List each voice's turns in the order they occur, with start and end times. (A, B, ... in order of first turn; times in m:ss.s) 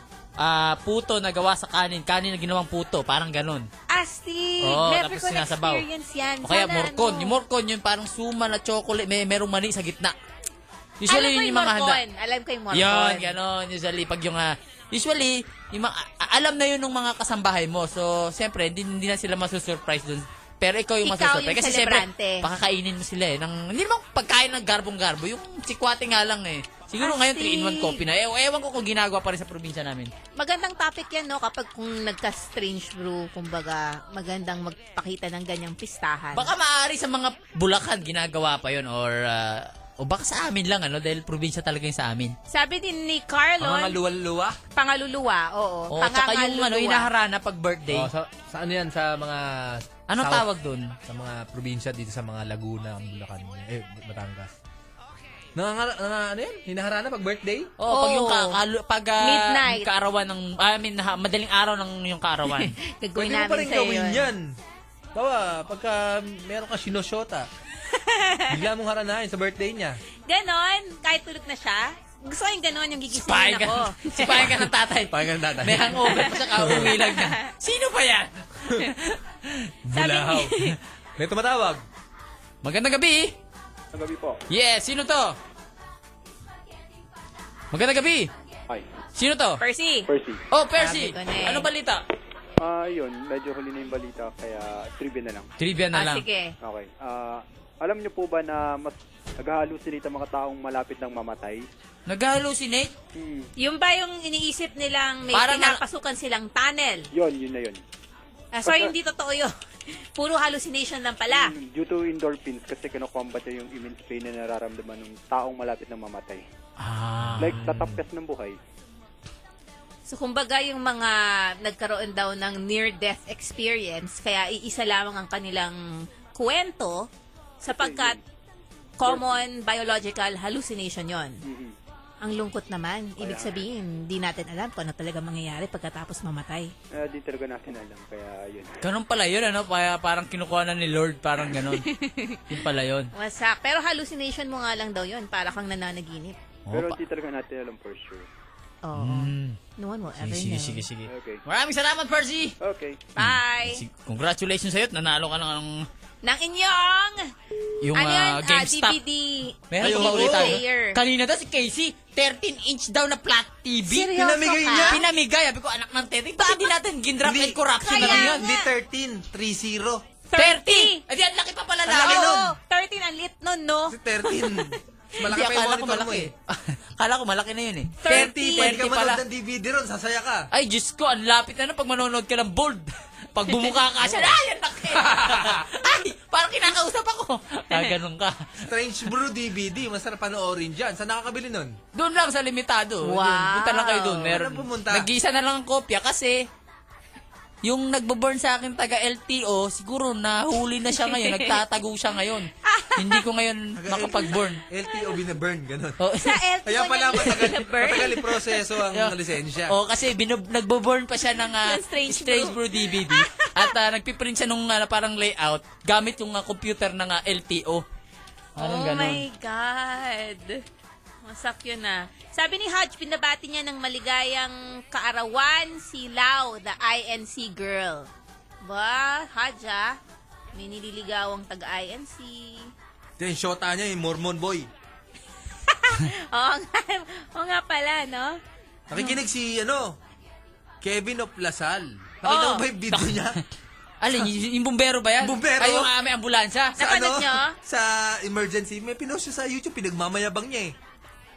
0:00.4-0:03.7 A
0:03.9-0:07.4 B
0:04.6-0:05.8 A
0:06.4-0:10.2 A
0:11.0-0:12.0 A
0:11.1-0:13.3 B
0:12.7-0:30.1 A
0:21.0-0:22.4 B
0:27.0-0:28.0 B
0:30.3-0:36.5 B
0:36.3-0:42.3 A
0:42.5-0:44.0 B
0:43.6-0:44.6 C
0:44.7-0:47.1 B
0:45.9-0:48.1 A
0:47.9-0:50.4 C
0:50.1-0:50.9 A
0:51.0-0:54.5 C
0:55.6-0:57.7 C
0:57.8-1:02.7 A
0:57.9-0:58.6 B
0:59.2-0:59.9 B
1:02.5-1:04.3 B
1:03.2-1:04.5 C
1:05.1-1:07.5 C
1:07.9-1:08.5 B
1:08.5-1:10.0 C
1:10.2-1:14.6 B
1:13.1-1:19.7 A
1:15.1-1:16.9 C
1:16.1-1:17.4 B
1:19.8-1:21.8 C
1:19.9-1:20.8 B
1:22.6-1:23.4 A
1:23.9-1:24.4 D
1:24.5-1:25.4 A
1:27.7-1:28.3 A
1:29.2-1:29.6 A
1:29.6-1:30.1 B
1:30.1-1:30.4 D
1:30.5-1:32.0 A
1:30.8-1:31.7 B
1:32.6-1:35.5 D
1:35.6-1:36.2 A
1:35.9-1:36.5 B
1:36.6-1:41.7 D
1:42.1-1:42.9 A
1:43.2-1:43.5 D
1:43.6-1:47.1 B
1:45.3-1:45.8 A
1:47.1-1:47.8 D
1:48.5-1:51.5 B
1:48.6-1:48.9 D
1:51.3-1:56.4 D
1:56.8-1:58.0 A
1:57.4-1:58.6 D
2:00.1-2:07.1 B
2:07.6-2:08.2 B
2:07.7-2:08.2 D
2:09.0-2:11.4 B
2:09.0-2:09.4 D
2:11.4-2:11.7 D
2:12.2-2:16.7 B
2:13.2-2:13.6 D
2:16.9-2:18.7 D
2:18.8-2:21.8 A
2:21.5-2:22.4 B
2:22.5-2:23.1 A
2:23.1-2:26.4 B
2:26.6-2:27.0 A
2:26.7-2:28.3 D
2:28.8-2:30.8 B
2:29.0-2:29.6 A
2:30.2-2:32.6 A
2:31.1-2:31.4 D
2:32.6-2:33.0 D
2:33.2-2:33.8 B
2:33.2-2:35.8 A
2:36.2-2:37.3 B
2:37.8-2:39.0 A
2:37.9-2:41.0 B
2:39.7-2:44.1 A
2:39.8-2:40.6 C
2:43.9-2:45.0 B
2:44.1-2:45.0 C
2:44.8-2:48.5 A
2:46.4-2:46.7 B
2:47.2-2:50.0 C
2:47.8-2:48.7 B
2:50.3-2:51.0 B
2:50.4-2:52.5 A
2:51.9-2:52.5 C
2:52.0-2:54.8 B
2:53.9-2:56.3 C
2:55.2-2:59.2 A
2:58.0-2:58.9 B
2:58.0-3:00.5 C
3:00.5-3:08.3 A
3:05.0-3:05.6 C
3:08.6-3:11.7 C
3:11.9-3:16.4 A
3:13.0-3:14.1 B
3:14.1-3:15.1 C
3:17.6-3:24.6 A
3:21.0-3:21.6 B
3:22.6-3:23.2 B
3:23.8-3:26.0 C
3:26.0-3:26.4 A
3:26.2-3:28.6 B
3:26.6-3:29.7 C
3:29.7-3:37.8 A
3:31.6-3:33.7 B
3:38.6-3:39.2 A
3:38.6-3:40.6 B
3:41.2-3:48.1 B
3:48.6-3:50.0 B
3:50.5-3:52.7 B
3:53.2-3:54.7 C
3:55.7-3:58.4 B
3:58.9-4:00.0 C
4:00.8-4:03.4 C
4:02.2-4:02.6 B
4:02.9-4:03.2 A
4:04.0-4:06.8 A
4:05.2-4:05.9 C
4:06.8-4:10.7 C
4:06.8-4:07.6 B